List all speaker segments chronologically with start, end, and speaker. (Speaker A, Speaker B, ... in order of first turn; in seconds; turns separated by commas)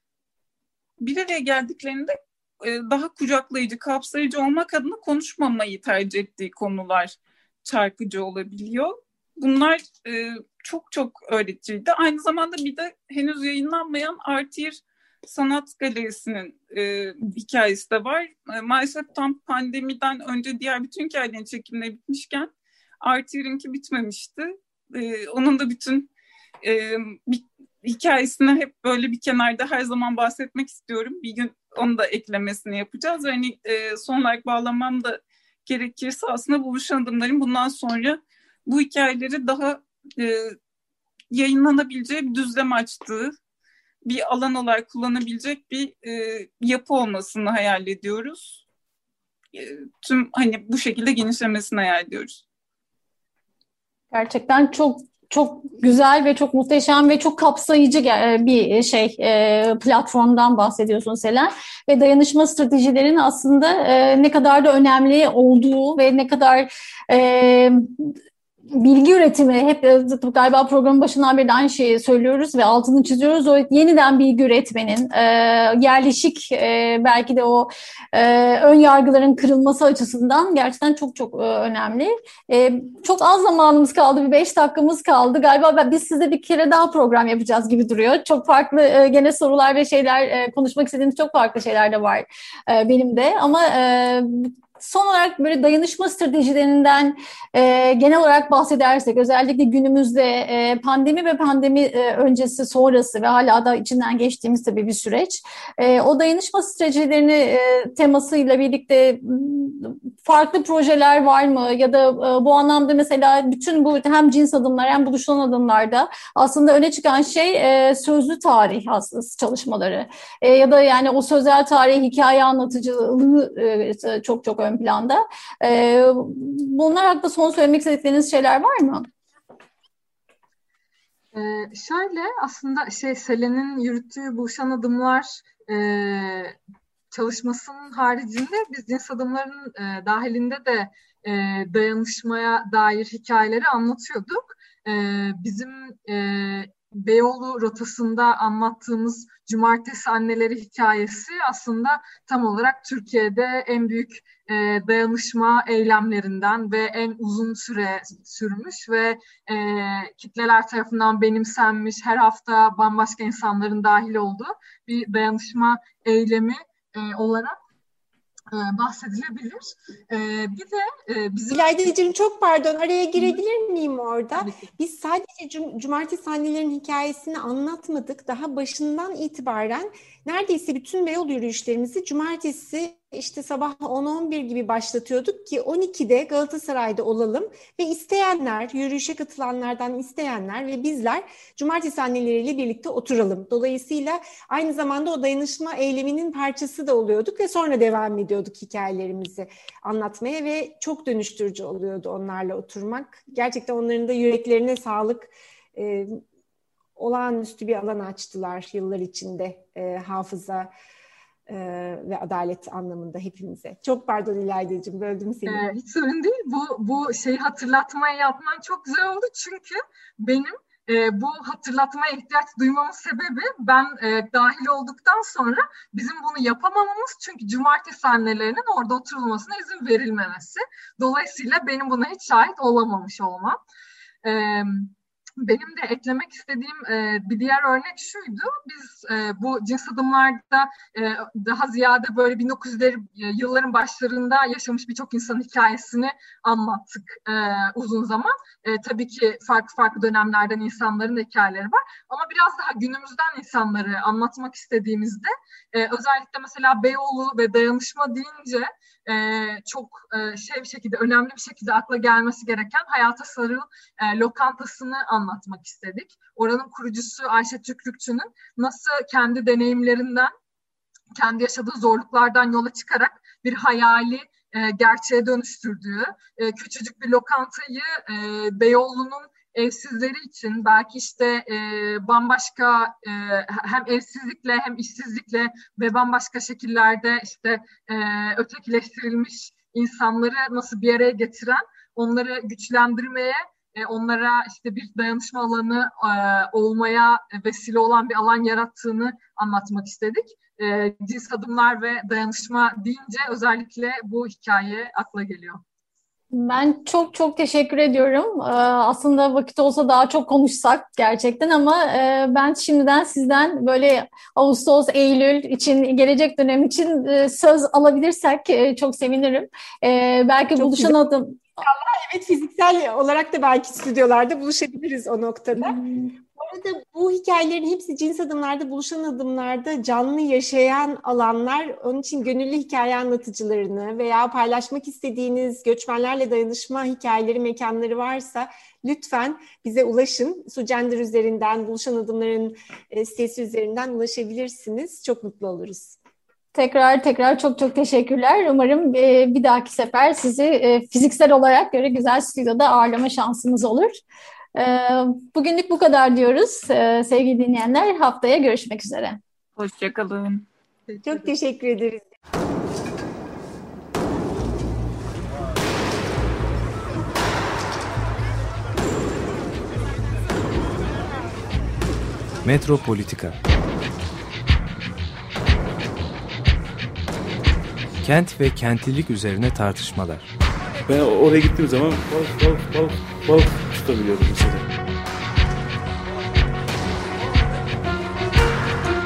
Speaker A: 1.0-22.5, Speaker A: 23.0-26.1, Speaker A: 26.6-40.6, Speaker A: 41.3-43.4, Speaker A: 44.0-48.6, Speaker A: 49.5-52.4, Speaker B: 54.1-68.2, Speaker B: 68.7-129.1, Speaker C: 131.3-136.6, Speaker C: 137.1-167.6, Speaker C: 168.5-171.9, Speaker D: 171.5-206.2, Speaker C: 174.4-174.7, Speaker D: 206.9-210.7, Speaker D: 211.5-215.6, Speaker C: 215.4-233.6, Speaker C: 234.2-270.3, Speaker C: 271.2-305.6, Speaker B: 306.3-321.4, Speaker D: 320.6-321.0, Speaker D: 321.6-325.8, Speaker B: 325.6-326.1, Speaker D: 326.4-346.0, Speaker B: 346.6-354.0, Speaker B: 354.6-359.2, Speaker A: 359.6-360.4, Speaker C: 360.9-361.3, Speaker D: 361.0-362.1, Speaker E: 372.4-373.4, Speaker E: 378.0-380.3, Speaker F: 380.9-384.7